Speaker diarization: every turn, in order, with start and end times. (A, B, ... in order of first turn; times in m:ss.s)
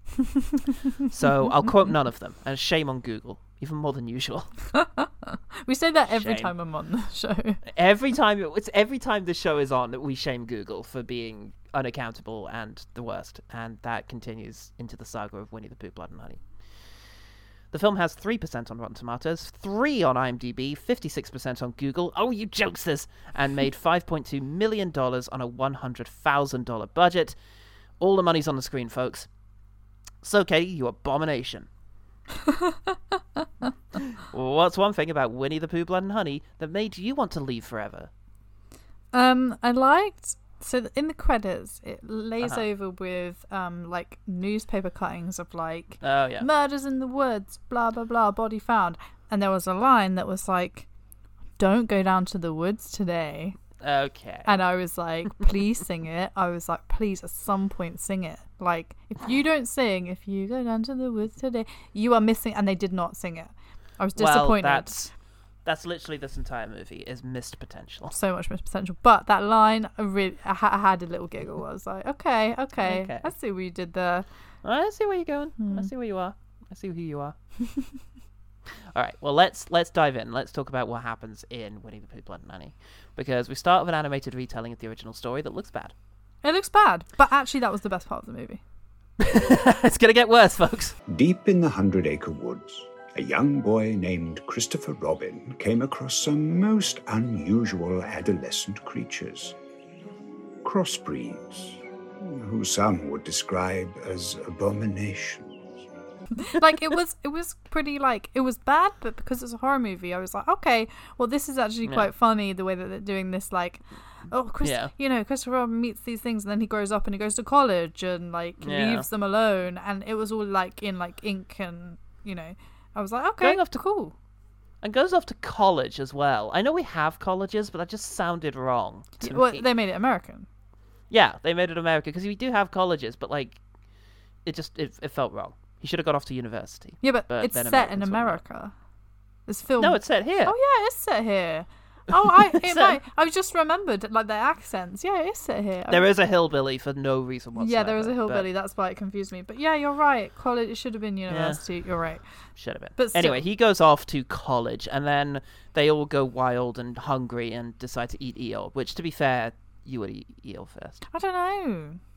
0:01.1-0:04.6 A
0:04.8-0:07.6 B
0:06.1-0:06.5 A
0:07.7-0:16.4 A
0:17.7-0:27.4 A
0:28.0-0:29.3 A
0:30.2-0:31.7 A
0:34.2-0:38.1 A
0:39.1-0:50.9 B
0:46.0-0:46.5 A
0:51.6-0:53.6 B
0:53.8-0:54.6 A
0:54.4-1:05.0 B
1:04.2-1:08.1 A
1:08.1-1:14.3 B
1:12.8-1:13.3 A
1:14.6-1:17.4 A
1:15.6-1:15.9 B
1:18.9-1:25.9 A
1:26.4-1:28.6 B
1:29.2-1:31.0 A
1:31.1-1:39.6 C
1:40.6-1:45.6 C
1:46.4-2:04.1 B
1:54.6-1:54.9 A
1:58.6-1:59.1 A
2:03.4-2:03.8 A
2:04.8-2:09.6 A
2:09.2-2:10.5 B
2:11.1-2:13.6 A
2:14.4-2:18.4 A
2:17.0-2:18.7 B
2:19.5-2:26.0 B
2:19.8-2:20.5 A
2:22.6-2:23.0 A
2:25.9-2:28.5 A
2:27.6-2:33.4 B
2:31.3-2:31.6 A
2:32.6-2:41.1 A
2:41.1-2:42.0 B